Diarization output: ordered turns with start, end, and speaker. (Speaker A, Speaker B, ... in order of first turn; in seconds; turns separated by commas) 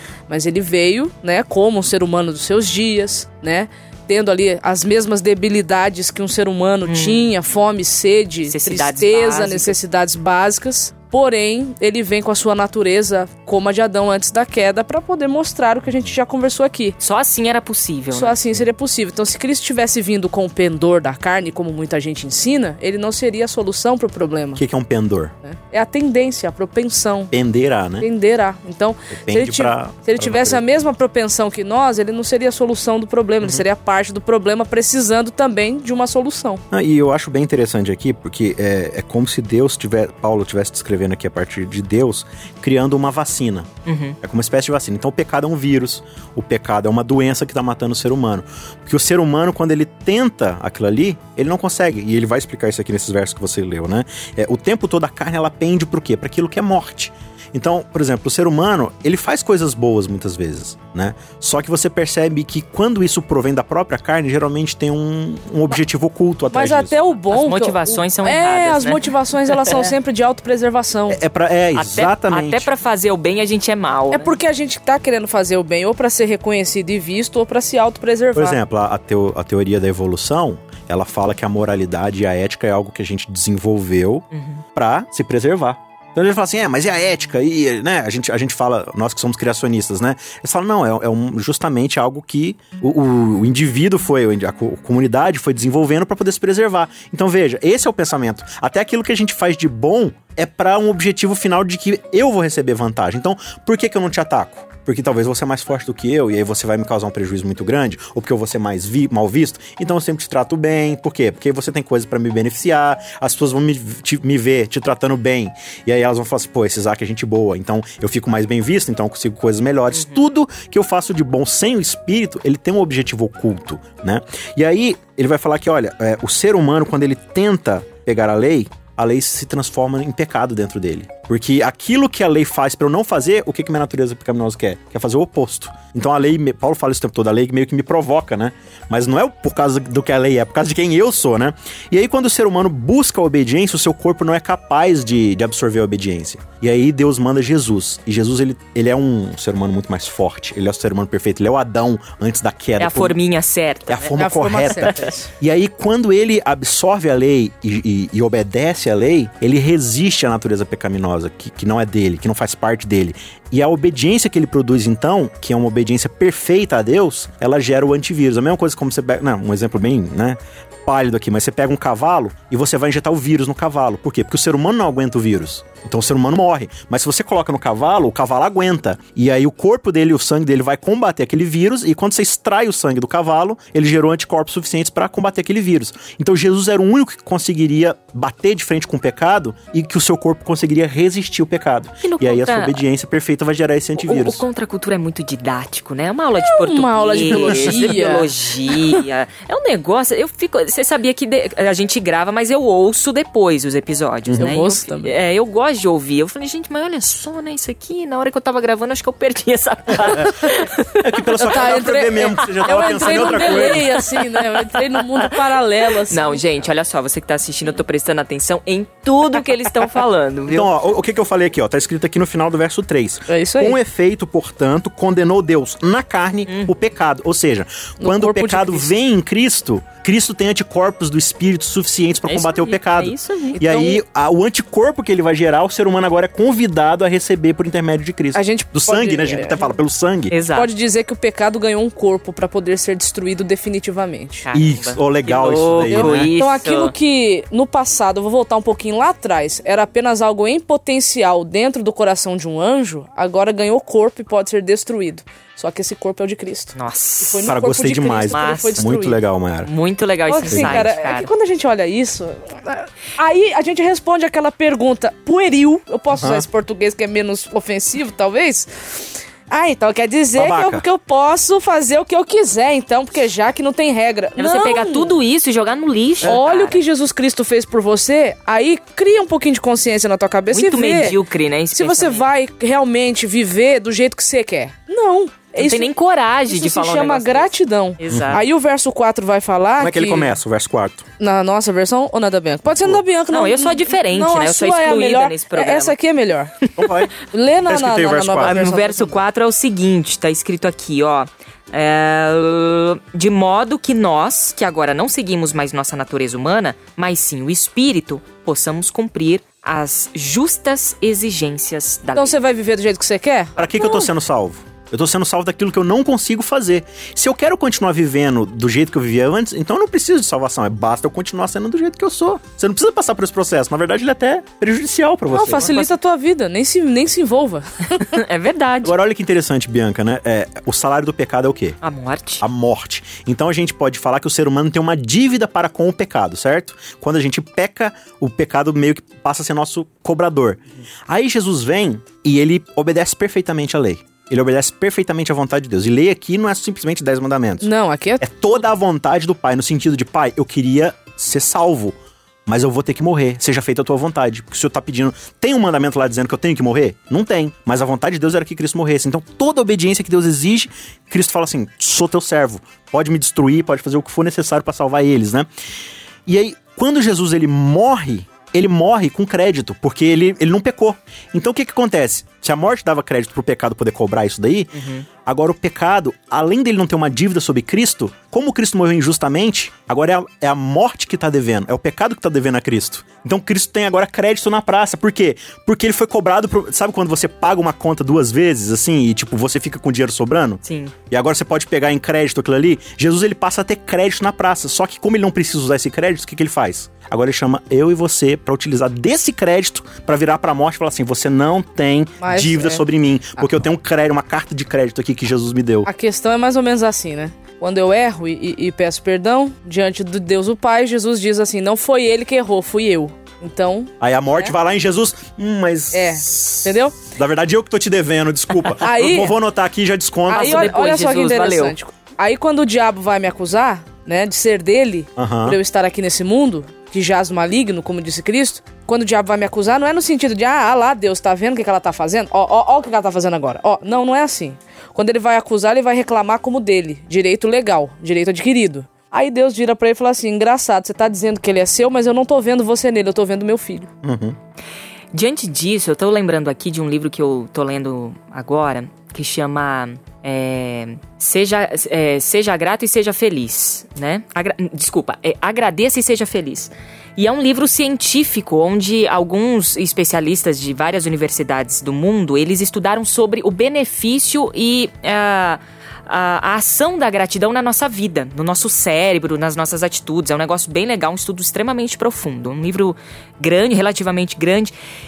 Speaker A: 0.3-17.0, Speaker B: 6.8-7.3, Speaker B: 8.5-9.7, Speaker B: 17.0-18.4, Speaker A: 18.1-24.6, Speaker C: 24.5-25.3, Speaker A: 25.4-27.3, Speaker C: 27.3-28.1, Speaker A: 28.0-36.6, Speaker C: 29.1-30.6, Speaker C: 36.7-43.7, Speaker B: 43.9-44.2, Speaker C: 44.2-67.0, Speaker A: 66.5-71.2, Speaker B: 67.3-69.0, Speaker C: 71.1-72.7, Speaker B: 71.7-74.3, Speaker A: 74.1-78.6, Speaker C: 78.3-153.2, Speaker B: 84.3-84.6, Speaker B: 119.9-120.2, Speaker B: 152.8-154.1, Speaker C: 153.9-194.4, Speaker A: 154.2-155.3, Speaker B: 192.0-192.8, Speaker B: 194.0-215.4, Speaker A: 196.4-199.0, Speaker C: 197.3-197.9, Speaker C: 204.3-204.6, Speaker A: 204.4-205.1, Speaker C: 211.0-214.0, Speaker A: 211.4-216.4, Speaker B: 216.0-220.7, Speaker C: 220.5-240.3, Speaker A: 223.3-223.8, Speaker B: 226.4-226.7, Speaker A: 228.0-228.9, Speaker B: 232.3-233.6, Speaker A: 233.5-234.0, Speaker A: 238.3-239.8, Speaker B: 240.3-240.7, Speaker A: 240.5-244.4, Speaker B: 244.4-246.9, Speaker C: 244.5-246.3, Speaker A: 245.8-259.2, Speaker B: 256.7-257.5, Speaker C: 257.4-259.7, Speaker B: 258.3-258.8, Speaker B: 259.6-261.3, Speaker A: 260.3-275.1, Speaker C: 260.5-260.9, Speaker C: 266.1-266.5, Speaker C: 270.4-270.8, Speaker B: 274.4-276.8, Speaker A: 276.2-281.2, Speaker B: 280.5-282.3, Speaker A: 281.7-285.9, Speaker B: 285.6-288.4, Speaker A: 286.5-290.3, Speaker C: 288.1-288.4, Speaker C: 289.8-291.1, Speaker A: 291.2-296.5, Speaker B: 293.3-295.9, Speaker C: 296.8-298.5, Speaker A: 297.2-299.2, Speaker B: 298.4-312.3, Speaker A: 312.1-314.1, Speaker C: 313.6-325.8, Speaker A: 325.3-328.1, Speaker B: 325.5-325.9, Speaker B: 328.0-328.9, Speaker C: 328.8-331.8, Speaker B: 331.8-332.4, Speaker C: 332.4-347.7, Speaker A: 347.6-348.2, Speaker C: 348.2-365.5, Speaker C: 366.2-405.9, Speaker B: 374.7-375.0, Speaker B: 390.6-390.9, Speaker A: 402.2-402.8, Speaker A: 405.9-414.5, Speaker C: 414.0-420.7, Speaker A: 415.9-417.1, Speaker A: 418.8-419.3, Speaker A: 420.3-443.9, Speaker B: 420.3-421.8, Speaker C: 425.2-425.6, Speaker C: 444.0-444.4, Speaker B: 445.1-474.7